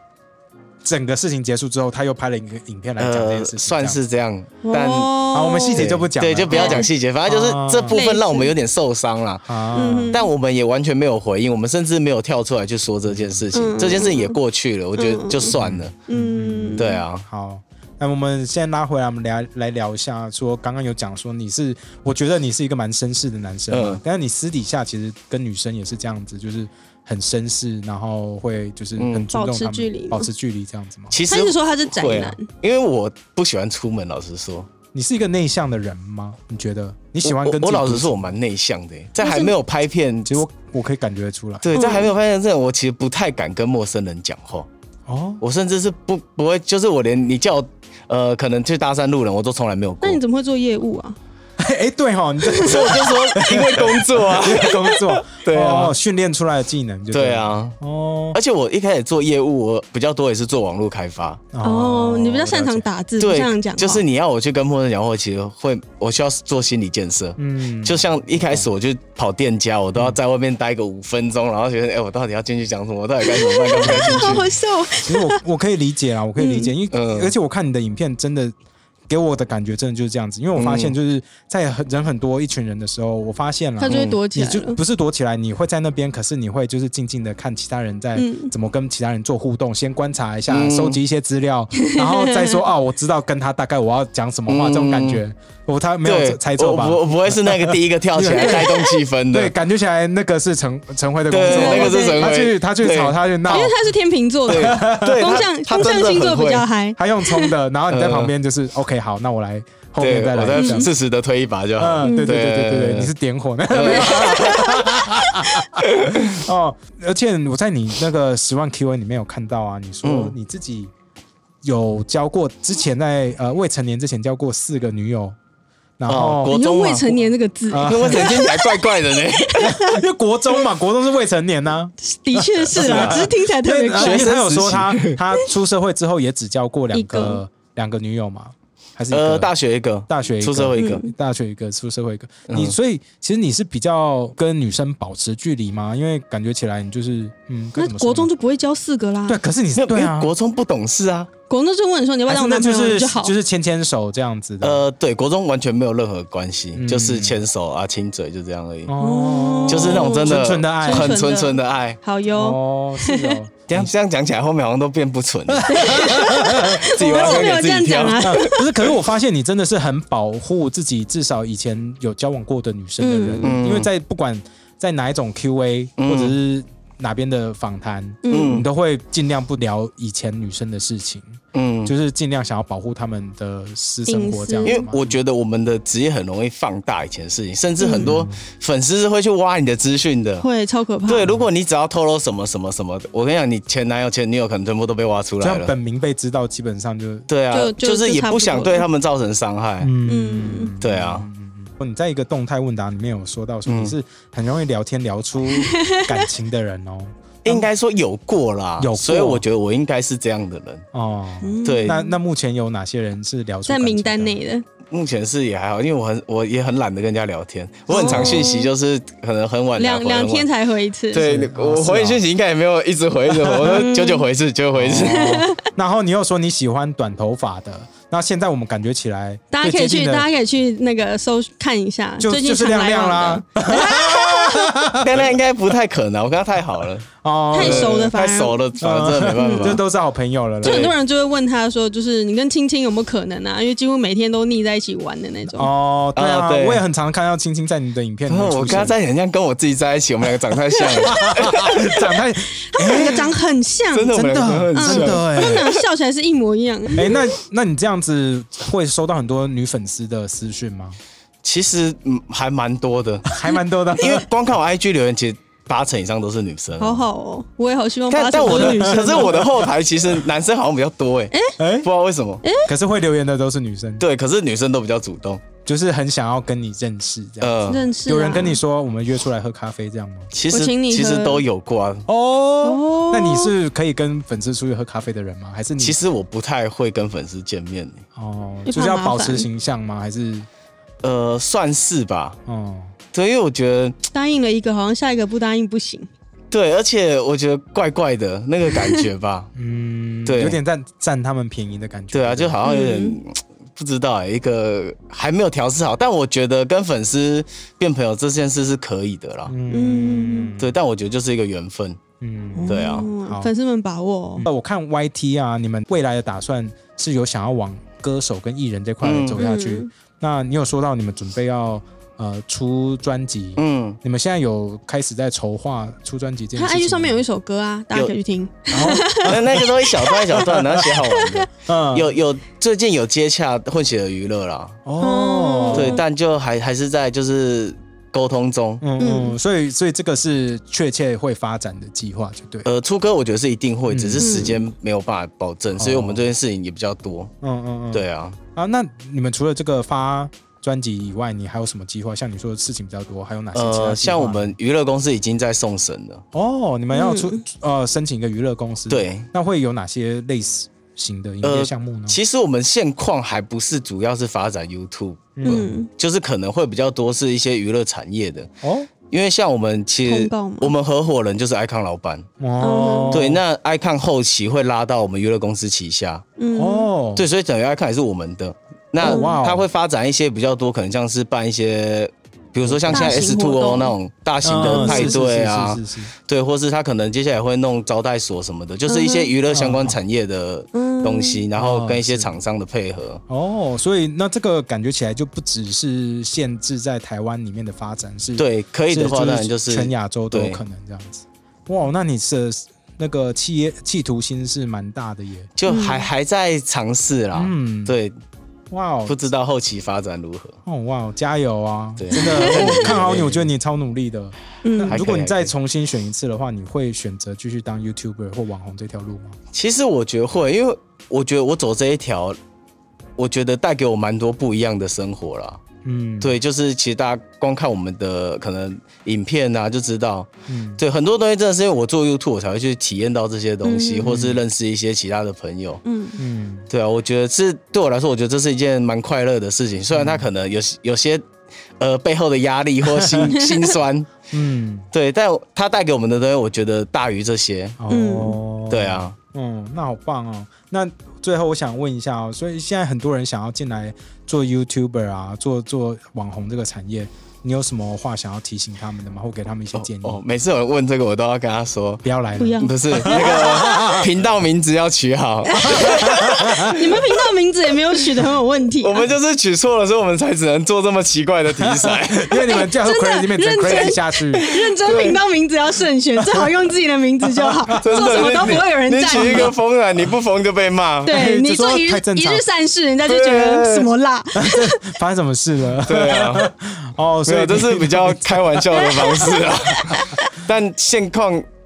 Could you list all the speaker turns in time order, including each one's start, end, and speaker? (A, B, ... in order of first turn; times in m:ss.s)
0:00.8-0:04.0 A
0:03.0-0:05.2 B
0:04.6-0:05.9 C
0:05.3-0:08.0 A
0:05.7-0:15.9 B
0:06.5-0:06.9 C
0:07.9-0:08.5 C
0:09.4-0:10.2 A
0:09.7-0:10.2 C
0:13.1-0:13.5 A
0:13.5-0:14.4 C
0:15.0-0:15.5 C
0:15.5-0:31.2 A
0:16.1-0:17.0 C
0:16.8-0:17.2 B
0:23.7-0:24.0 B
0:29.0-0:29.3 B
0:29.3-0:30.3 C
0:31.1-0:34.7 B
0:31.3-0:32.5 C
0:34.9-0:38.4 A
0:37.2-0:40.4 B
0:39.2-0:39.5 C
0:40.3-0:41.8 A
0:41.6-0:44.7 B
0:41.7-0:42.1 C
0:45.1-0:45.4 A
0:45.4-0:50.2 B
0:50.0-0:51.2 C
0:51.6-0:58.4 A
0:52.5-0:52.8 C
0:52.6-0:56.0 B
0:57.1-0:57.8 B
0:58.3-1:01.4 B
1:01.5-1:02.8 A
1:01.6-1:04.0 C
1:03.2-1:14.5 B
1:07.4-1:08.7 A
1:13.2-1:15.4 C
1:13.8-1:14.5 A
1:15.0-1:18.6 A
1:16.4-1:16.7 C
1:16.9-1:17.3 B
1:19.1-1:43.8 A
1:20.6-1:21.0 B
1:23.8-1:24.8 C
1:23.9-1:24.2 B
1:28.2-1:28.5 C
1:30.5-1:31.0 B
1:31.8-1:32.6 C
1:34.5-1:35.2 B
1:36.0-1:39.5 B
1:41.3-1:43.7 B
1:41.5-1:42.3 C
1:43.5-1:47.5 C
1:44.5-1:46.6 B
1:44.5-1:45.3 A
1:47.0-1:50.9 A
1:47.9-1:48.3 B
1:50.0-1:53.1 B
1:50.6-1:50.9 C
1:51.8-2:00.9 A
1:52.0-1:52.4 C
1:53.7-1:54.7 B
1:54.0-1:55.6 C
1:55.8-1:56.4 B
2:00.0-2:00.4 B
2:01.6-2:05.4 A
2:06.0-2:06.5 A
2:06.1-2:07.1 B
2:06.5-2:10.0 C
2:07.7-2:08.4 A
2:07.8-2:09.8 B
2:09.6-2:19.5 A
2:12.0-2:14.4 C
2:12.7-2:13.3 B
2:14.0-2:15.2 B
2:16.9-2:17.4 C
2:19.1-2:21.0 B
2:20.1-2:28.3 A
2:20.8-2:21.1 C
2:22.5-2:22.8 B
2:27.8-2:29.4 C
2:29.3-2:30.3 A
2:29.7-2:31.3 B
2:31.5-2:33.3 C
2:32.3-2:34.9 A
2:34.6-2:38.9 B
2:36.7-2:37.4 A
2:38.9-2:41.3 A
2:39.0-2:43.4 C
2:39.7-2:42.0 B
2:42.3-2:43.9 A
2:43.7-2:48.6 B
2:45.5-2:47.5 A
2:45.7-2:48.7 C
2:48.2-3:05.2 A
2:53.0-2:53.5 C
2:53.4-2:53.9 B
2:56.0-2:56.4 B
2:58.2-2:58.6 C
2:58.3-2:58.7 B
3:01.5-3:01.9 B
3:04.1-3:04.8 C
3:04.6-3:10.5 B
3:07.8-3:08.1 C
3:07.9-3:08.4 A
3:10.4-3:11.3 C
3:11.1-3:15.7 B
3:15.4-3:17.3 A
3:17.3-3:19.9 B
3:17.5-3:18.9 C
3:19.8-3:27.7 A
3:20.1-3:20.8 C
3:20.8-3:21.3 B
3:23.7-3:24.0 B
3:25.5-3:26.0 C
3:27.4-3:30.8 B
3:28.8-3:29.4 A
3:30.9-3:34.4 A
3:31.4-3:32.2 C
3:31.6-3:32.0 B
3:33.7-3:34.6 C
3:34.9-3:40.5 B
3:37.9-3:38.7 C
3:38.0-3:38.4 A
3:39.8-3:41.3 C
3:41.1-3:45.5 B
3:41.2-3:42.2 A
3:43.4-3:43.8 A
3:43.6-3:44.3 C
3:44.8-3:50.3 A
3:45.0-3:45.7 C
3:49.5-3:54.8 C
3:52.2-3:55.3 A
3:55.0-3:59.8 B
3:57.2-3:58.1 A
3:57.5-3:58.6 C
3:58.8-4:00.9 A
3:59.4-3:59.8 C
4:00.6-4:00.9 B
4:00.6-4:05.7 C
4:05.5-4:09.0 A
4:06.2-4:06.8 B
4:08.3-4:12.0 B
4:11.0-4:13.2 A
4:12.7-4:17.3 C
4:12.9-4:13.2 B
4:13.9-4:15.7 B
4:14.1-4:15.7 A
4:16.9-4:21.0 A
4:21.4-4:23.3 B
4:23.3-4:24.3 A
4:23.9-4:27.0 B
4:26.8-4:29.4 C
4:28.1-4:32.4 B
4:28.4-4:29.7 A
4:31.6-4:31.9 A
4:32.4-4:32.7 C
4:32.6-4:34.0 A
4:34.0-4:35.4 B
4:35.6-4:40.3 A
4:37.4-4:37.8 B
4:37.7-4:38.6 C
4:40.3-4:42.1 B
4:40.5-4:41.4 C
4:42.1-4:46.0 A
4:42.6-4:43.5 C
4:45.8-4:48.0 B
4:48.2-4:50.5 A
4:48.7-4:49.5 C
4:51.0-4:52.4 B
4:52.5-4:52.9 A
4:53.1-4:54.0 B
4:54.1-4:56.1 C
4:56.5-4:59.5 B
4:59.6-5:02.7 A
5:00.2-5:00.6 B
5:02.1-5:09.5 B
5:02.6-5:03.2 C
5:09.5-5:10.8 A
5:09.7-5:10.5 C
5:10.6-5:12.0 B
5:12.2-5:13.5 A
5:12.6-5:14.5 C
5:12.6-5:13.1 B
5:14.4-5:27.2 A
5:19.0-5:19.4 B
5:19.4-5:19.9 C
5:23.6-5:24.0 B
5:26.6-5:31.5 C
5:28.7-5:30.8 A
5:29.2-5:34.8 B
5:31.6-5:32.1 A
5:34.8-5:36.0 A
5:35.0-5:36.0 C
5:35.7-5:38.8 B
5:38.8-5:42.7 A
5:39.0-5:39.4 C
5:42.6-5:47.3 B
5:43.9-5:44.5 A
5:44.2-5:44.6 C
5:45.8-5:46.3 A
5:47.4-5:54.6 A
5:47.9-5:48.4 B
5:53.5-5:56.2 B
5:56.3-6:02.2 A
5:56.9-5:57.4 C
5:58.9-5:59.3 B
6:01.4-6:08.5 B
6:05.4-6:05.7 A
6:05.4-6:05.9 C
6:08.6-6:08.9 A
6:09.1-6:12.3 B
6:10.1-6:10.7 C
6:12.4-6:13.4 A
6:12.6-6:13.3 C
6:13.1-6:16.2 B
6:16.4-6:16.9 C
6:16.6-6:17.3 A
6:17.2-6:33.2 B
6:19.0-6:19.6 A
6:19.0-6:19.4 C
6:22.7-6:23.3 A
6:22.9-6:23.9 C
6:24.4-6:26.1 A
6:24.6-6:25.2 C
6:28.9-6:29.3 C
6:29.5-6:30.0 A
6:30.7-6:31.4 C
6:31.6-6:32.3 A
6:33.3-6:45.5 A
6:38.4-6:40.6 B
6:45.6-6:48.2 B
6:45.7-6:46.1 C
6:47.3-6:48.0 A
6:48.7-6:49.2 A
6:49.1-6:50.6 B
6:50.7-6:59.4 A
6:52.0-6:53.5 B
6:54.6-6:55.0 C
6:54.9-6:55.5 B
6:59.5-7:02.4 B
7:03.2-7:05.6 B
7:05.8-7:06.4 A
7:06.2-7:15.8 B
7:10.5-7:10.8 A
7:13.6-7:14.1 C
7:14.0-7:14.4 A
7:15.8-7:16.2 C
7:16.2-7:16.7 A
7:16.7-7:21.2 B
7:19.9-7:20.3 A
7:21.8-7:24.1 B
7:22.9-7:23.4 A
7:24.3-7:24.9 A
7:24.9-7:27.8 B
7:27.8-7:40.2 A
7:27.9-7:28.4 C
7:28.7-7:29.2 B
7:39.8-7:42.0 B
7:42.0-7:44.1 A
7:42.4-7:43.8 C
7:42.6-7:47.0 B
7:45.5-7:46.9 A
7:45.5-7:49.1 C
7:48.8-7:52.4 B
7:51.6-7:54.5 A
7:52.5-7:59.5 C
7:54.8-7:55.2 B
7:57.2-7:59.5 A
7:57.8-8:01.2 B
8:01.0-8:02.4 A
8:01.0-8:04.9 C
8:03.1-8:03.9 B
8:04.4-8:09.4 A
8:05.9-8:06.5 B
8:07.2-8:11.5 B
8:09.0-8:09.4 C
8:09.9-8:10.3 A